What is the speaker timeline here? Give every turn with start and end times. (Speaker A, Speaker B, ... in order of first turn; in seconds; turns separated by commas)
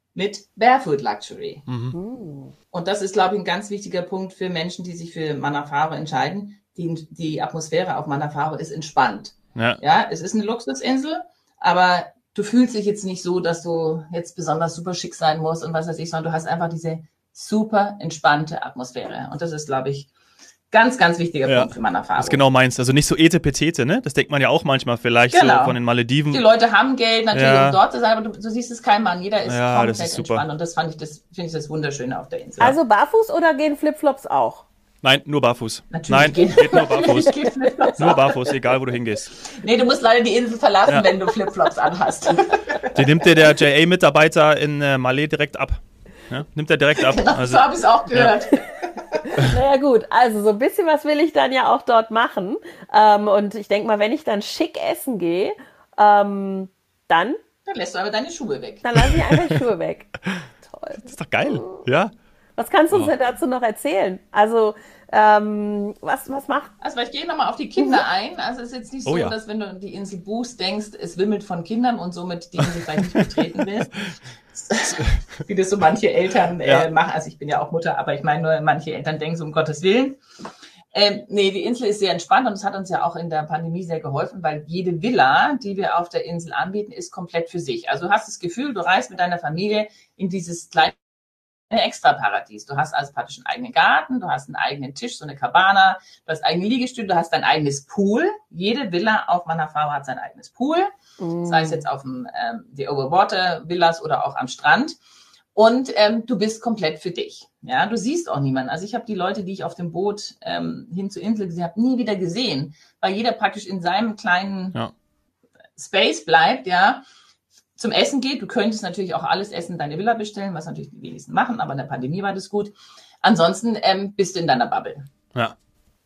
Speaker A: 0.1-1.7, Speaker B: 1.7-2.0, Speaker C: 1.9-2.5, Speaker A: 2.7-20.1, Speaker A: 20.7-22.4, Speaker B: 21.5-26.4, Speaker A: 25.3-32.8, Speaker B: 27.3-27.8, Speaker B: 29.4-30.4, Speaker C: 32.6-34.7, Speaker B: 35.0-37.4, Speaker A: 35.9-38.8, Speaker B: 37.9-39.4, Speaker A: 39.4-43.3, Speaker B: 42.8-48.3, Speaker A: 47.0-49.3, Speaker C: 49.3-57.4, Speaker A: 57.7-58.9, Speaker C: 58.8-60.1, Speaker B: 59.1-59.5, Speaker C: 60.6-61.9, Speaker B: 61.0-62.1, Speaker C: 62.6-66.7, Speaker A: 66.8-80.2, Speaker B: 69.1-69.3, Speaker A: 80.9-91.0, Speaker A: 91.7-100.9, Speaker C: 101.2-101.8, Speaker A: 101.5-105.0, Speaker A: 105.5-114.8, Speaker A: 115.8-117.0, Speaker A: 117.8-125.1